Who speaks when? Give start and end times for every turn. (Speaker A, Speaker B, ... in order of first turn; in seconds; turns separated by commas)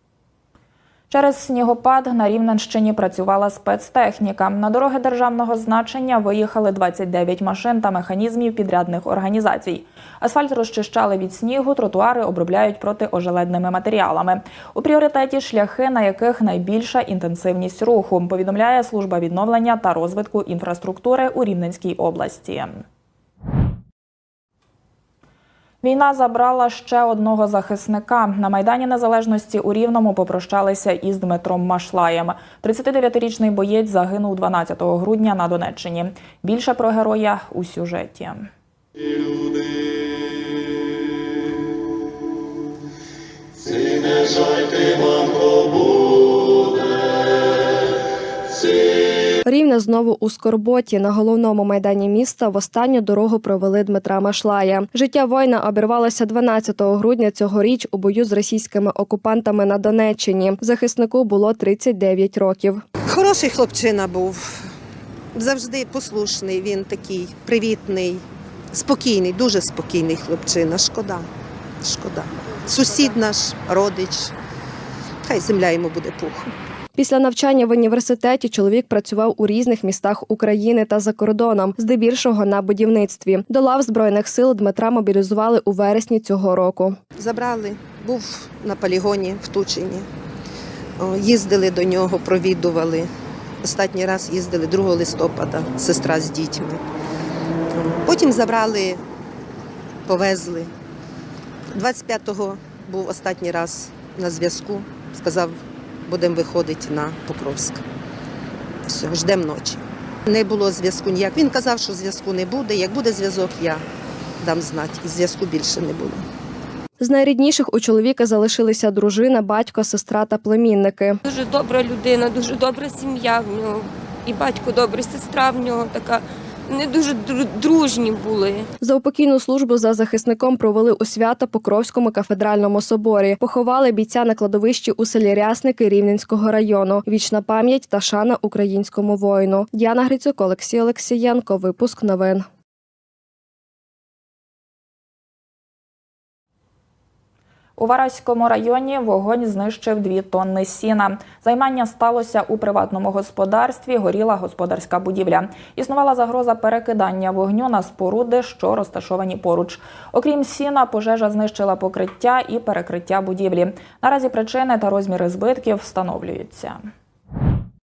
Speaker A: 1.1-22.8, Speaker A: 25.8-38.5, Speaker B: 49.5-62.8, Speaker C: 63.1-64.6, Speaker C: 65.3-71.3, Speaker C: 71.8-74.3, Speaker C: 75.2-76.5, Speaker B: 77.0-87.0, Speaker C: 87.2-90.1, Speaker C: 91.0-93.1, Speaker C: 93.6-96.8, Speaker C: 97.7-99.0, Speaker C: 100.1-100.7, Speaker C: 101.7-107.8, Speaker C: 108.9-113.8, Speaker C: 114.4-116.2, Speaker B: 117.0-121.2, Speaker D: 121.2-128.7, Speaker B: 128.8-142.4, Speaker A: 147.8-166.8